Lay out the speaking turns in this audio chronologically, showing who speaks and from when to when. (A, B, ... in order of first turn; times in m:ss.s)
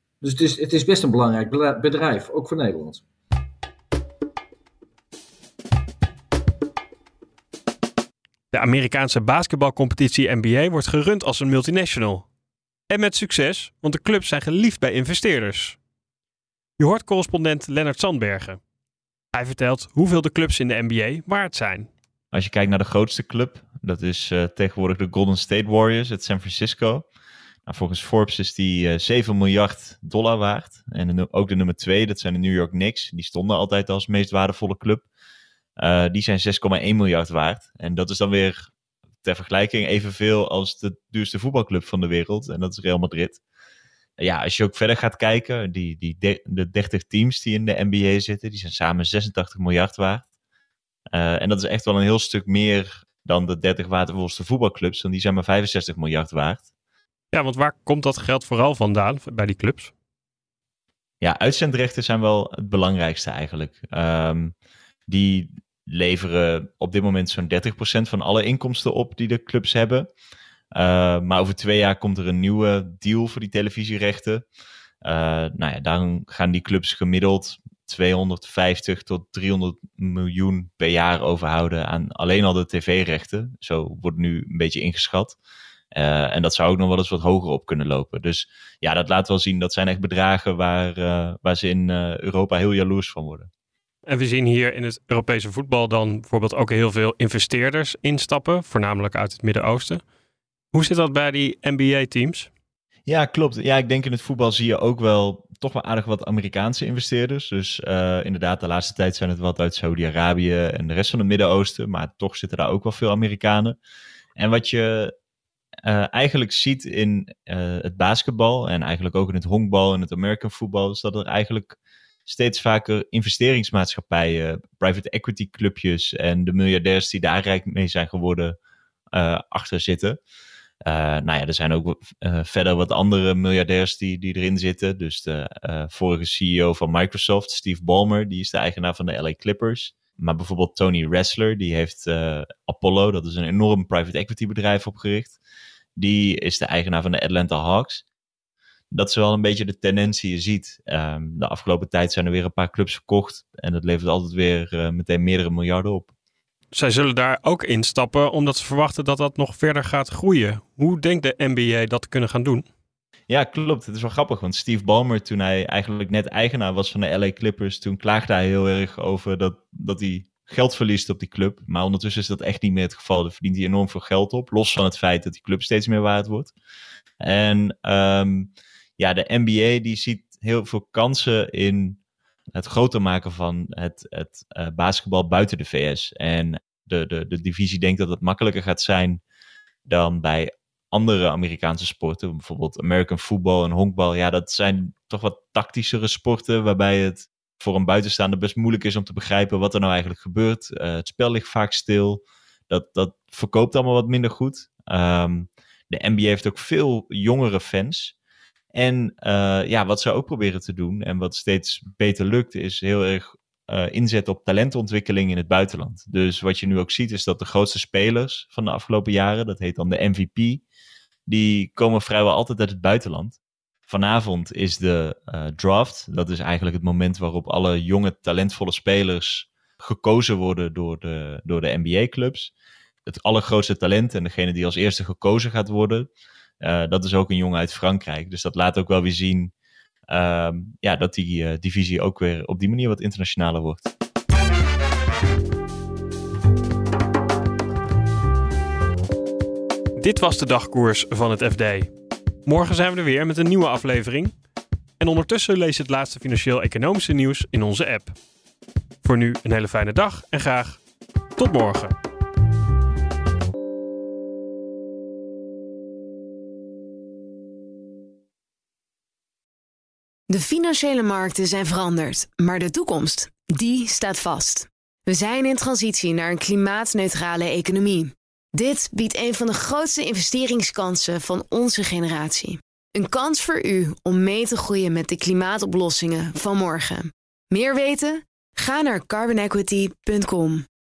0:00.2-0:03.0 A
0:08.5-0:12.2 B
0:12.9-0:15.8 B
0:16.8-0:18.6 B
0:19.3-0:21.9 B
0:22.3-0:27.0 C
0:27.6-0:35.0 C
0:35.8-0:38.7 C
0:39.2-0:43.4 C
0:44.2-0:50.2 C
0:51.1-0:56.7 C
0:57.3-0:59.9 B
1:01.2-1:04.5 C
1:05.1-1:10.1 C
1:10.8-1:14.4 C
1:15.0-1:25.4 C
1:25.9-1:33.5 C
1:34.1-1:40.0 B
1:40.7-1:42.5 B
1:43.1-1:53.8 C
1:54.4-1:55.1 C
1:55.8-2:01.8 C
2:02.3-2:08.6 C
2:09.1-2:10.2 C
2:10.8-2:25.4 C
2:26.0-2:28.0 C
2:28.9-2:36.1 C
2:36.7-2:42.6 B
2:43.3-2:56.5 C
2:57.2-3:02.0 C
3:02.5-3:09.2 C
3:09.8-3:28.1 C
3:28.7-3:40.6 C
3:41.3-3:52.5 C
3:53.0-3:56.1 C
3:56.6-3:59.5 C
4:00.1-4:03.9 C
4:10.0-4:11.9 B
4:12.4-4:14.3 B
4:15.0-4:18.1 B
4:19.0-4:20.8 B
4:21.4-4:21.9 B
4:30.3-4:50.6 D